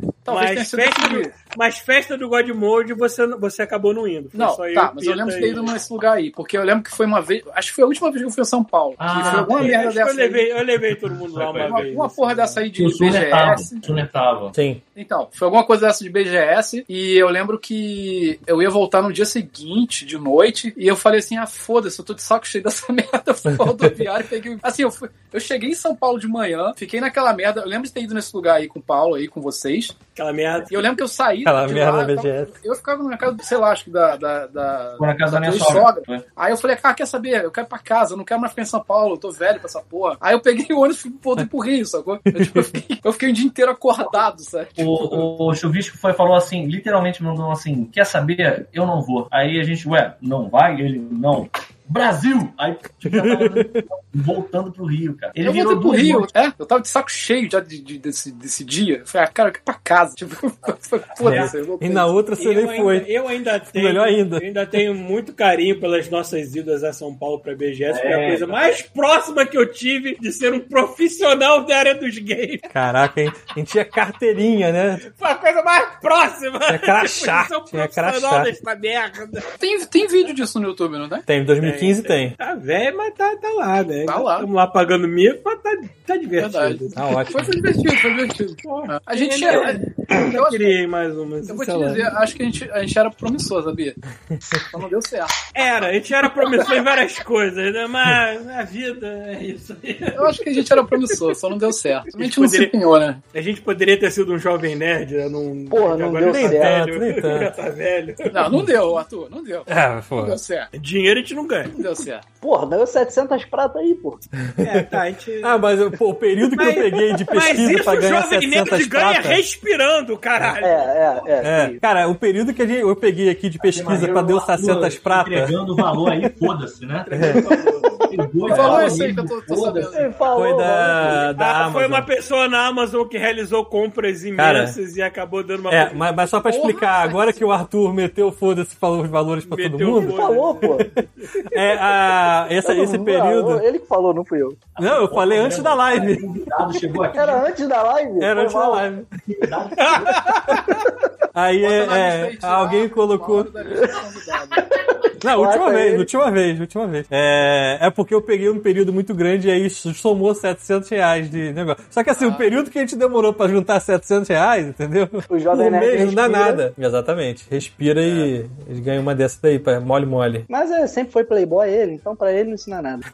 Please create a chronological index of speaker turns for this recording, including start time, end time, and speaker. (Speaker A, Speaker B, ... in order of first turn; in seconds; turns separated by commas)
Speaker A: 0.2-1.3, Speaker B: 0.3-5.8, Speaker A: 4.3-10.5, Speaker C: 9.0-9.8, Speaker B: 9.1-12.6, Speaker C: 11.3-11.9, Speaker A: 11.6-13.9, Speaker C: 12.7-14.6, Speaker D: 14.5-14.8, Speaker A: 14.9-30.0, Speaker B: 30.2-30.9, Speaker A: 30.7-45.1, Speaker D: 31.4-32.5, Speaker C: 35.0-36.3, Speaker D: 42.4-42.8, Speaker C: 44.8-56.3, Speaker D: 53.0-53.8, Speaker A: 55.4-62.2, Speaker D: 61.2-63.1, Speaker B: 62.4-72.7, Speaker D: 63.7-64.5, Speaker C: 67.9-68.7, Speaker D: 72.7-75.0, Speaker B: 75.0-79.5, Speaker D: 76.7-78.5, Speaker A: 79.6-81.2, Speaker D: 81.3-82.4, Speaker B: 81.6-87.0, Speaker A: 84.1-84.5, Speaker A: 86.4-90.8, Speaker D: 87.0-87.5, Speaker B: 88.6-92.1, Speaker A: 91.5-95.4, Speaker B: 95.5-101.4, Speaker A: 96.4-96.7, Speaker A: 100.2-103.2, Speaker B: 102.1-102.7, Speaker B: 103.3-108.7, Speaker E: 105.7-106.7, Speaker D: 106.2-107.5, Speaker A: 108.3-110.7, Speaker D: 109.7-110.4, Speaker B: 110.8-111.8, Speaker A: 111.7-112.2, Speaker E: 112.4-114.2, Speaker D: 114.4-119.4, Speaker B: 114.6-115.6, Speaker B: 116.5-121.3, Speaker E: 120.6-121.8, Speaker D: 121.4-126.0, Speaker C: 123.6-130.1, Speaker D: 127.1-127.5, Speaker B: 127.1-127.9, Speaker A: 128.4-130.2, Speaker E: 128.5-129.0, Speaker E: 129.9-131.2, Speaker D: 130.3-132.1, Speaker B: 131.3-136.1, Speaker D: 134.4-134.8, Speaker D: 135.7-143.6, Speaker A: 136.4-137.5, Speaker B: 139.5-141.4, Speaker E: 140.0-140.9, Speaker E: 142.6-144.6, Speaker C: 144.8-147.5, Speaker D: 144.8-146.3, Speaker E: 147.1-148.9, Speaker D: 148.2-149.1, Speaker C: 149.3-150.3, Speaker B: 149.8-150.7, Speaker D: 151.3-153.5, Speaker A: 151.6-154.8, Speaker D: 155.2-170.5, Speaker E: 155.2-156.1, Speaker A: 162.2-162.5, Speaker E: 165.3-166.7, Speaker E: 170.5-173.1